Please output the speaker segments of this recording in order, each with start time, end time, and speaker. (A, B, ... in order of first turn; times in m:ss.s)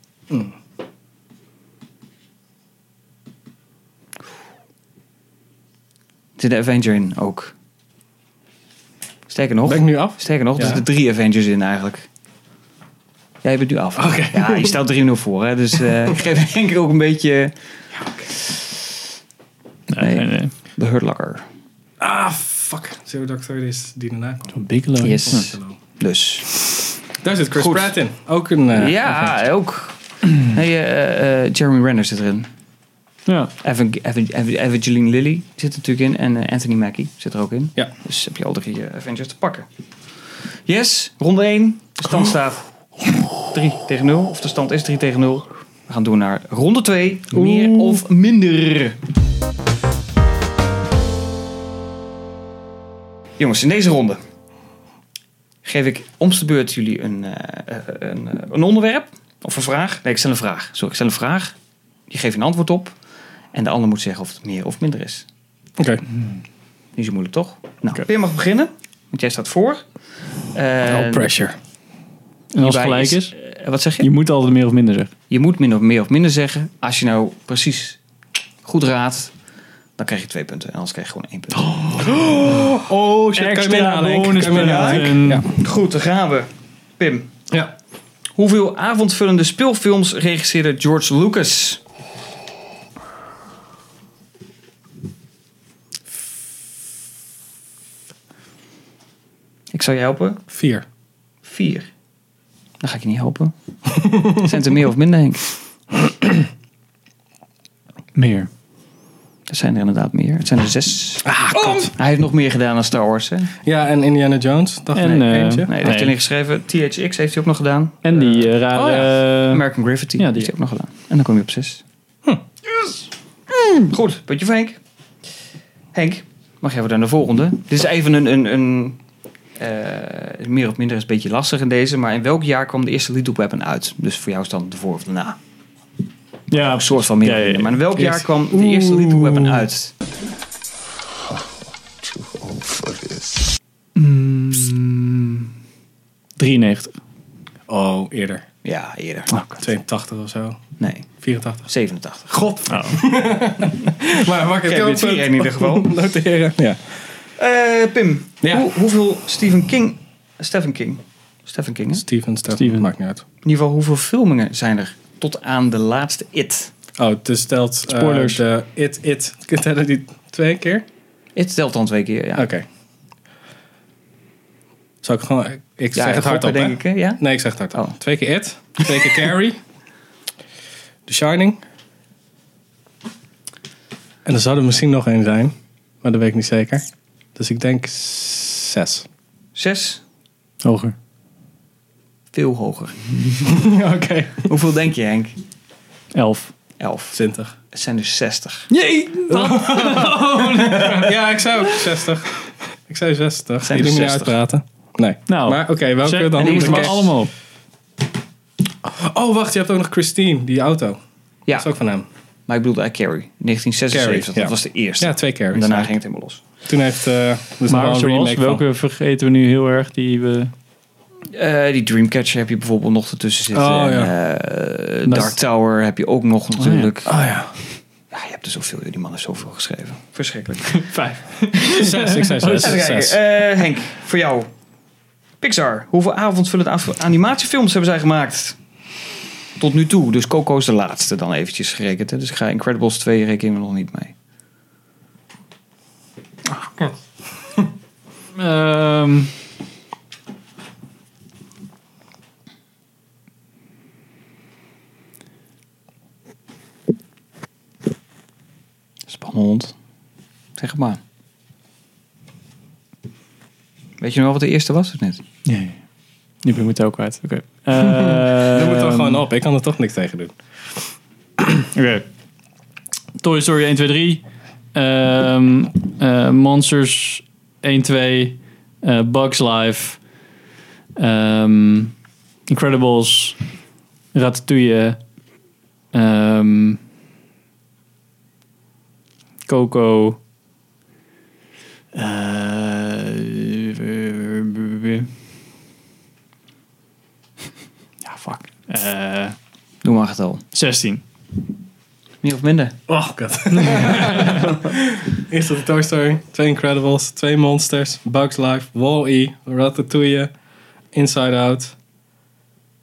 0:00.3-0:00.5 A
0:06.4-0:07.5 B
0:09.3-0:12.1 B
0:09.6-0:10.8 A
0:13.4-0:17.5 B
0:14.0-0:14.8 A
0:19.9-0:20.5 C
0:19.9-0:21.4 B
0:22.0-0:25.8 A
0:24.5-0:25.5 C
0:25.0-0:26.8 B
0:27.2-0:29.3 A
0:27.5-0:27.9 B
0:28.7-0:32.5 B
0:33.2-0:33.5 C
0:33.6-0:39.7 B
0:40.6-0:42.7 B
0:43.4-0:49.0 B
0:47.3-0:48.0 A
0:53.4-0:54.2 B
0:55.6-1:01.6 B
1:02.1-1:02.9 B
1:03.5-1:05.2 B
1:05.8-1:06.0 A
1:07.0-1:09.8 B
1:10.5-1:11.3 B
1:10.8-1:11.6 A
1:12.5-1:13.3 C
1:12.6-1:14.1 B
1:14.0-1:15.1 C
1:15.3-1:18.0 B
1:18.6-1:19.3 B
1:20.0-1:21.9 B
1:21.8-1:25.5 A
1:23.3-1:25.5 C
1:24.4-1:27.3 B
1:28.4-1:31.8 B
1:39.7-1:40.4 B
1:40.5-1:40.8 A
1:41.4-1:41.9 B
1:42.8-1:43.5 B
1:44.0-1:44.4 A
1:44.1-1:45.4 B
1:48.1-1:48.5 C
1:49.5-1:53.5 B
1:51.2-1:51.9 A
1:53.6-1:55.7 A
1:54.9-1:56.1 C
1:55.6-2:01.8 B
1:58.0-1:59.6 C
2:00.2-2:00.5 C
2:03.8-2:04.8 B
2:05.9-2:09.0 B
2:09.6-2:15.4 B
2:16.5-2:17.8 C
2:16.5-2:19.9 B
2:18.0-2:19.2 A
2:24.0-2:25.5 C
2:26.4-2:27.0 C
2:27.7-2:28.4 A
2:28.6-2:29.3 B
2:29.3-2:29.6 C
2:29.6-2:30.6 A
2:30.8-2:31.1 B
2:31.1-2:31.7 A
2:31.6-2:32.3 B
2:32.3-2:36.8 A
2:32.7-2:33.0 C
2:34.5-2:35.9 B
2:37.4-2:42.0 B
2:38.4-2:38.7 A
2:41.9-2:43.2 A
2:42.5-2:42.9 C
2:43.4-2:46.7 B
2:47.0-2:50.8 A
2:47.9-2:48.4 C
2:51.4-2:52.5 B
2:52.3-2:52.6 A
2:55.0-2:59.6 A
2:55.9-2:57.2 B
3:01.1-3:01.6 A
3:04.2-3:09.0 A
3:09.5-3:10.0 B
3:10.6-3:10.9 C
3:12.3-3:13.5 B
3:13.4-3:14.5 A
3:14.4-3:15.3 B
3:16.1-3:16.5 C
3:16.8-3:17.2 B
3:17.1-3:17.5 A
3:17.7-3:18.7 B
3:18.7-3:21.9 C
3:19.3-3:27.1 A
3:23.6-3:24.4 B
3:25.3-3:27.3 C
3:26.4-3:27.1 B
3:28.8-3:31.0 A
3:31.5-3:32.1 A
3:32.5-3:36.4 B
3:33.9-3:35.9 A
3:36.6-3:38.6 A
3:37.7-3:40.5 C
3:41.3-3:47.1 B
3:43.5-3:44.1 A
3:45.0-3:45.4 C
3:46.6-3:46.9 C
3:47.0-3:47.5 A
3:48.1-3:50.8 B
3:50.6-3:52.8 C
3:51.6-3:53.2 A
3:52.6-3:54.5 B
3:55.4-3:58.6 B
3:59.6-4:04.1 B
4:06.6-4:06.9 C
4:08.3-4:09.3 C
4:19.1-4:19.7 B
4:20.6-4:21.0 B
4:24.0-4:25.2 B
4:25.4-4:25.8 C
4:26.4-4:29.2 C
4:27.8-4:30.4 A
4:31.7-4:32.0 C
4:33.2-4:40.0 C
4:41.0-4:41.9 C
4:42.5-4:43.4 C
4:44.1-4:45.0 C
4:45.9-4:46.8 C
4:49.5-4:50.2 C
4:51.9-4:55.1 C
4:58.0-4:59.4 C
4:59.8-5:00.4 B
5:00.5-5:01.0 C
5:02.2-5:02.7 B
5:02.9-5:10.3 A
5:03.6-5:04.5 C
5:10.9-5:11.7 A